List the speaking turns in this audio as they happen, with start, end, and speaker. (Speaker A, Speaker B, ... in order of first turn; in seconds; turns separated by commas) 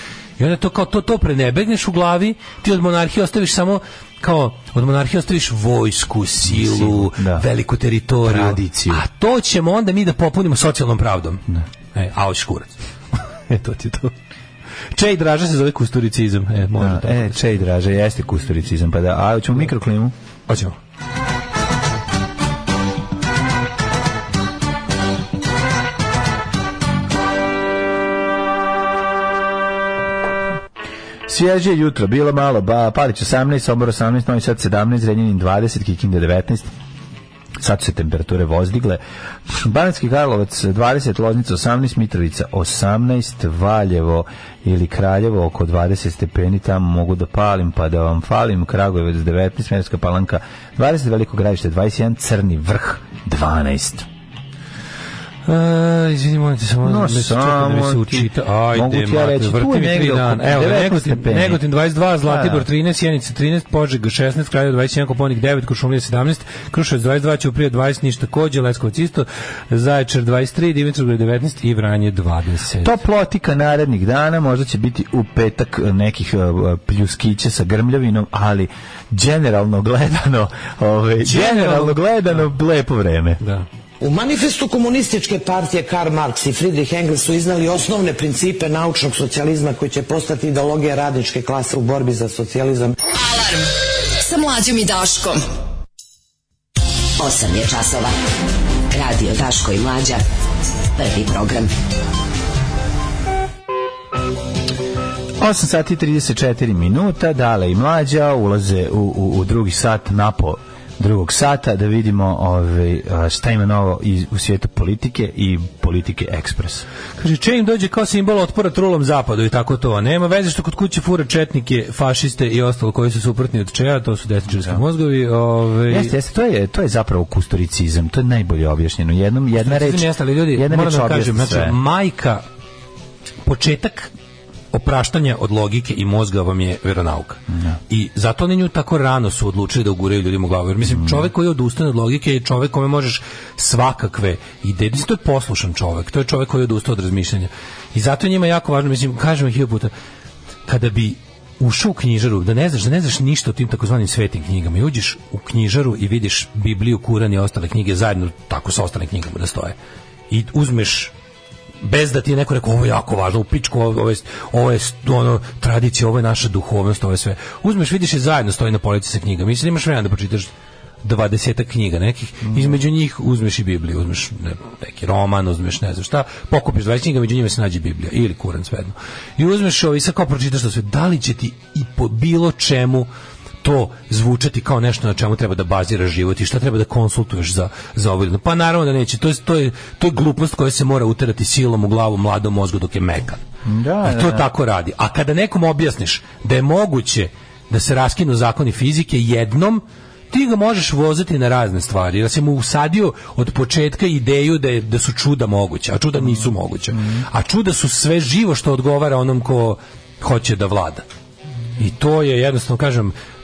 Speaker A: 0.4-12.7, Speaker B: 6.4-7.5, Speaker B: 8.2-9.0, Speaker A: 13.5-14.1, Speaker A: 14.9-17.4, Speaker B: 16.8-20.1, Speaker A: 20.5-20.8, Speaker B: 31.3-36.7, Speaker B: 37.6-54.1, Speaker A: 55.5-73.0, Speaker B: 56.8-61.6, Speaker B: 62.2-62.7, Speaker B: 72.8-83.4, Speaker A: 81.2-82.4, Speaker A: 83.4-83.7, Speaker C: 84.0-93.0, Speaker D: 93.1-95.4, Speaker E: 97.2-98.1, Speaker E: 98.9-100.2, Speaker E: 101.0-101.7, Speaker B: 105.4-116.8, Speaker A: 117.2-126.1, Speaker B: 124.5-124.8, Speaker B: 125.9-131.8, Speaker A: 129.6-132.4, Speaker A: 133.4-134.1, Speaker A: 134.7-149.9, Speaker B: 137.5-137.8, Speaker B: 140.8-141.3, Speaker A: 150.7-159.7, Speaker A: 160.3-161.1, Speaker A: 161.8-170.5, Speaker A: 171.0-183.1, Speaker B: 172.4-172.8, Speaker A: 183.6-193.4, Speaker B: 193.6-194.5, Speaker A: 194.0-211.0, Speaker B: 206.9-207.2, Speaker A: 211.8-213.1